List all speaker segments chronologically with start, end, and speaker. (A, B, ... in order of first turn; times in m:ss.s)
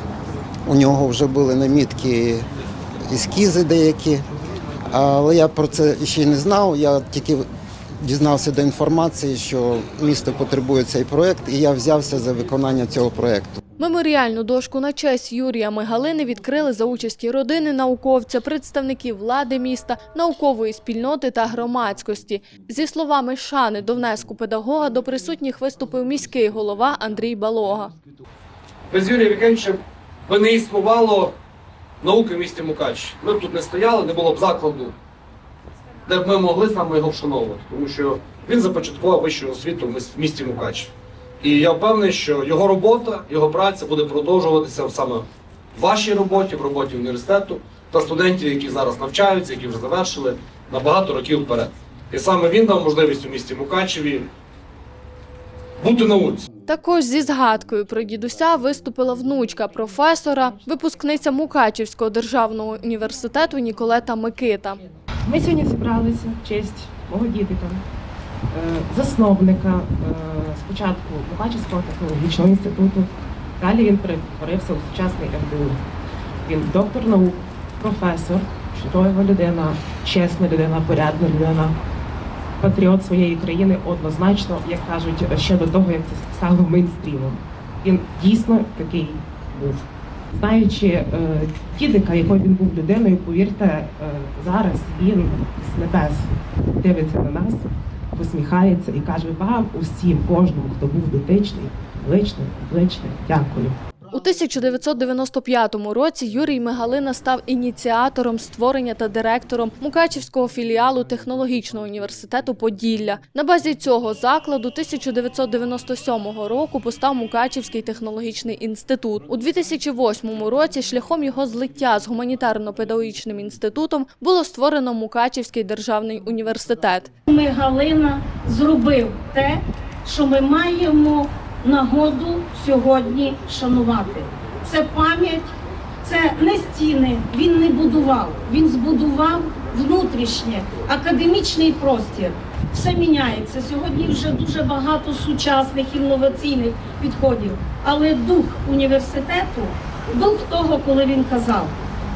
0:00.7-0:02.4 A
0:03.1-0:04.2 A
0:04.9-0:07.4 A
0:08.0-0:13.6 A
0:13.8-0:27.9 B
0:28.9-0:31.3 C
0:32.0-0:35.0 C
0:36.1-0:54.3 C
0:55.8-0:56.5 C
0:56.7-1:04.8 B
1:05.2-1:07.8 D
1:08.5-1:15.8 D
1:16.4-1:21.8 D
1:22.6-1:43.8 D
1:44.1-2:07.1 B
2:07.3-2:15.5 E
2:16.0-2:31.8 E